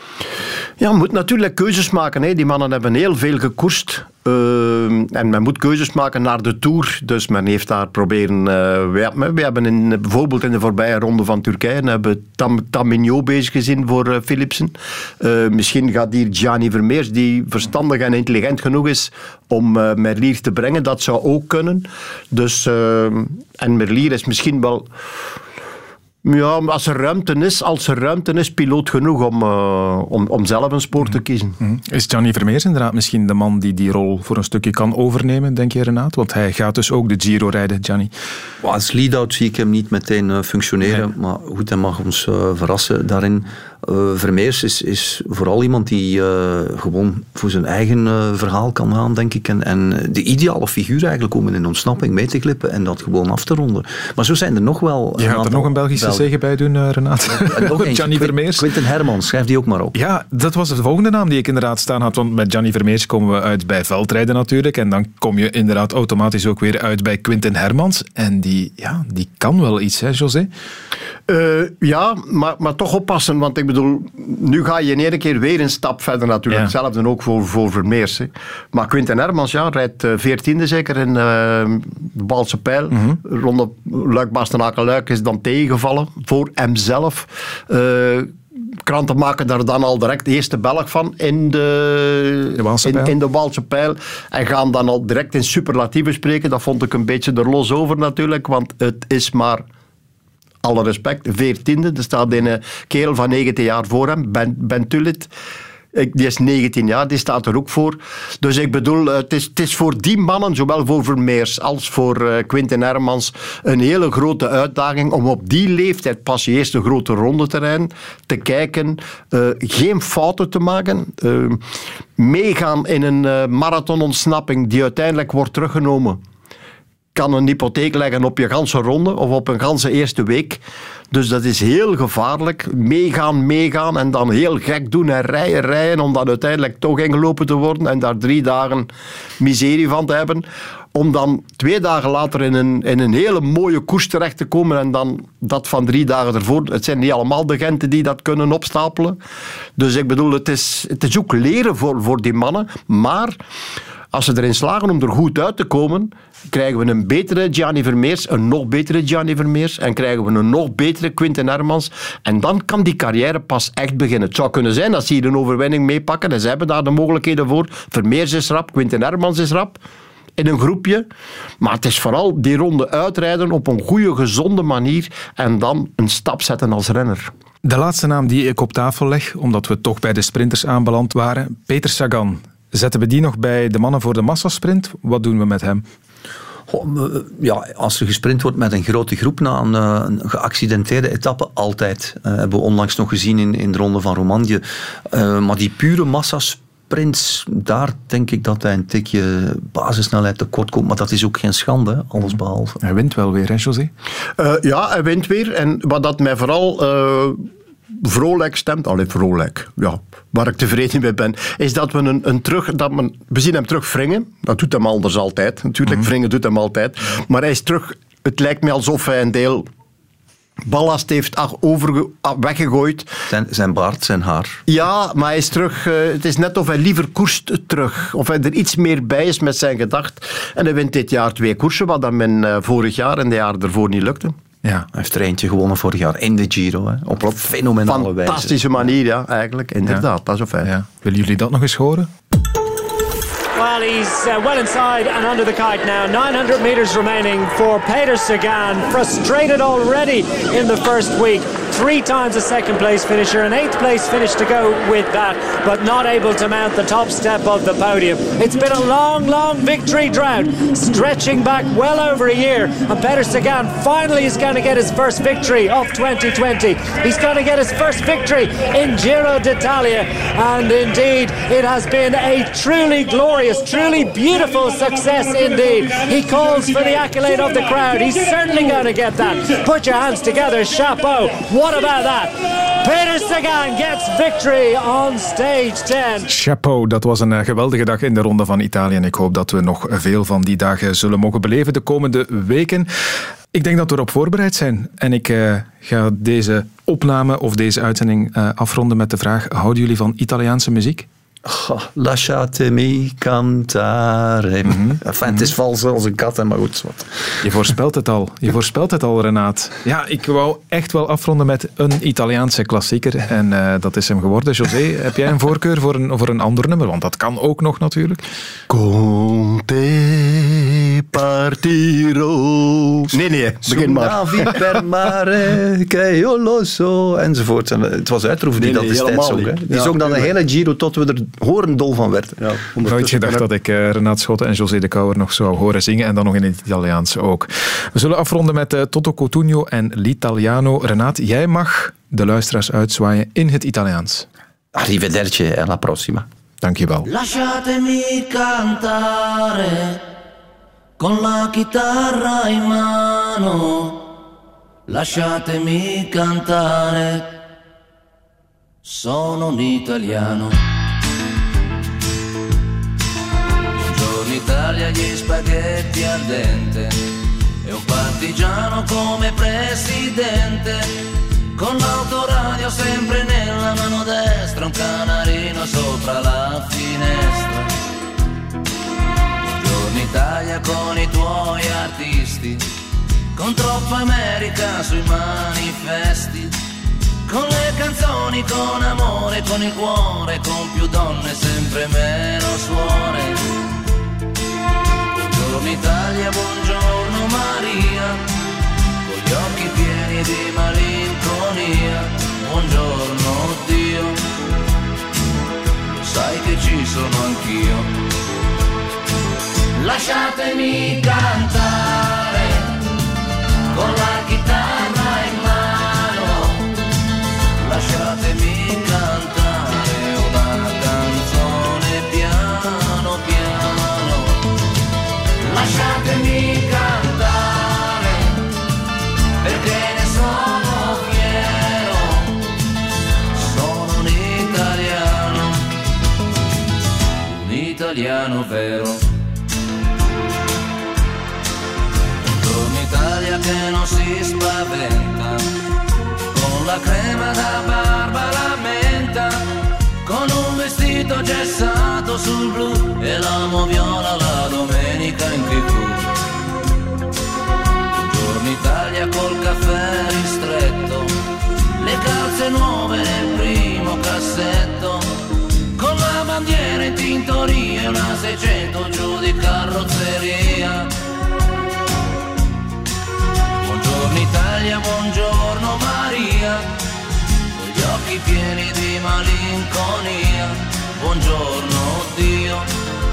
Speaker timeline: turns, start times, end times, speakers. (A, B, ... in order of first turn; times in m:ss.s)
0:00.8-0:24.9 A
0:26.2-0:31.6 A
0:31.6-0:38.1 B
0:38.6-0:56.3 C
0:55.2-0:58.7 B
0:57.2-1:00.0 C
0:59.9-1:10.5 B
1:11.3-1:28.3 A
1:28.8-1:39.6 A
1:32.6-1:33.1 B
1:40.6-1:45.3 A
1:45.9-2:01.6 A
2:02.2-2:06.2 A
2:07.1-2:18.9 A
2:19.4-2:29.2 A
2:29.8-2:33.4 A
2:34.1-2:49.8 A
2:50.4-2:51.0 A
2:51.6-2:57.3 A
2:57.6-3:05.8 B
3:06.7-3:22.8 C
3:22.8-3:23.9 B
3:24.4-3:27.4 A
3:28.0-3:39.7 A
3:40.7-3:43.1 A
3:43.3-3:44.6 C
3:44.7-3:54.3 A
3:54.9-3:58.8 C
3:57.8-4:00.7 A
4:00.6-4:02.1 B
4:03.6-4:46.3 D
4:46.3-4:52.9 B
4:53.5-5:01.1 B
5:01.4-5:07.0 C
5:04.6-5:05.4 B
5:07.4-5:18.2 B
5:18.7-5:24.6 A
5:23.6-5:32.4 C
5:28.6-5:30.3 A
5:32.4-5:33.4 A
5:32.9-5:44.3 B
5:44.7-5:46.3 C
5:46.6-5:47.1 B
5:47.0-5:50.0 E
5:51.0-5:54.0 E
5:54.9-5:57.4 E
5:58.8-6:00.6 E
6:03.7-6:07.0 E
6:07.6-6:10.9 E
6:11.6-6:17.7 E
6:19.4-6:22.6 E
6:23.3-6:26.5 E
6:27.2-6:33.4 E
6:35.1-6:38.2 E
6:39.0-6:44.2 E
6:46.0-6:47.9 E
6:49.8-6:52.7 E
6:53.7-6:56.6 E
6:57.6-7:04.4 E
7:05.4-7:08.4 E
7:09.4-7:12.3 E
7:13.3-7:15.6 E
7:17.2-7:19.0 E
7:22.2-7:25.4 E
7:26.3-7:29.5 E
7:30.0-7:36.1 E
7:37.9-7:41.1 E
7:41.8-7:45.0 E
7:45.8-7:50.9 E
7:53.6-7:56.7 E
7:57.5-8:02.7 E